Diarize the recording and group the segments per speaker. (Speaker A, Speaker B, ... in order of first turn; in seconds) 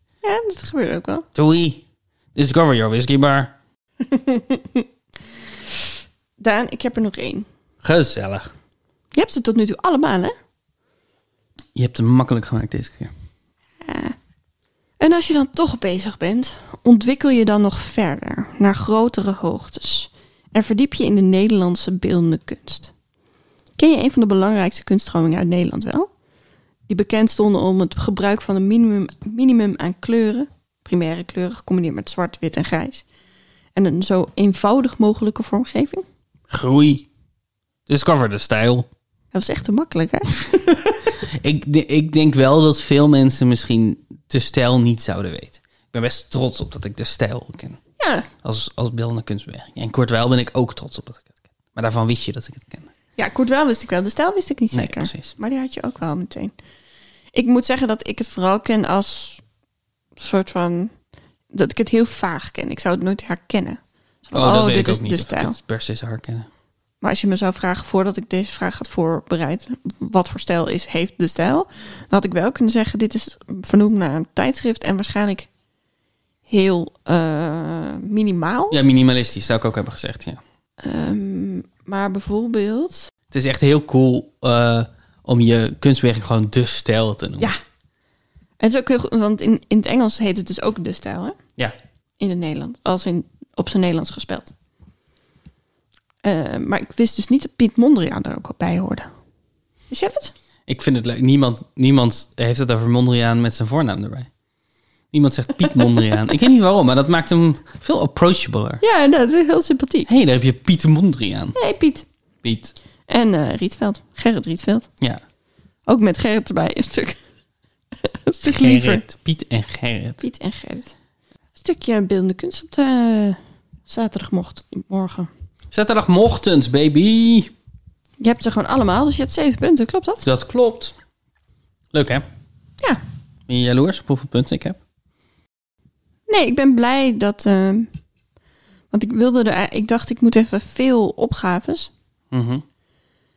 Speaker A: 0.2-1.3, 4.0-4.9, 6.4-7.5, 9.1-10.3, 13.8-14.2, 15.0-22.9, 23.8-26.1, 26.9-33.0, 33.8-36.0, 39.3-41.1, 48.0-48.3, 53.2-56.5, 57.3-59.4, 60.2-60.9, 61.5-65.6, 67.0-75.5, 76.5-78.8, 80.8-83.1, 88.6-91.4, 92.2-94.5, 96.2-99.1, 99.9-100.3, 105.6-106.3, 108.8-110.1, 111.5-112.1, 113.1-114.9, 115.9-117.2, 118.0-119.0, 120.2-120.9, 121.6-125.3, 128.2-130.2, 136.3-137.9, 138.9-141.9
Speaker B: 1.3-3.5, 7.8-8.5, 11.8-13.1, 36.5-37.1, 37.9-38.9, 41.2-47.8, 48.4-52.9, 54.7-55.3, 64.3-66.5, 78.7-80.4, 83.3-87.5, 100.7-104.3, 105.1-108.8, 110.1-111.6, 112.4-112.8, 118.5-120.2, 125.7-127.5, 130.2-130.9, 131.9-132.2, 133.5-134.8, 142.3-142.6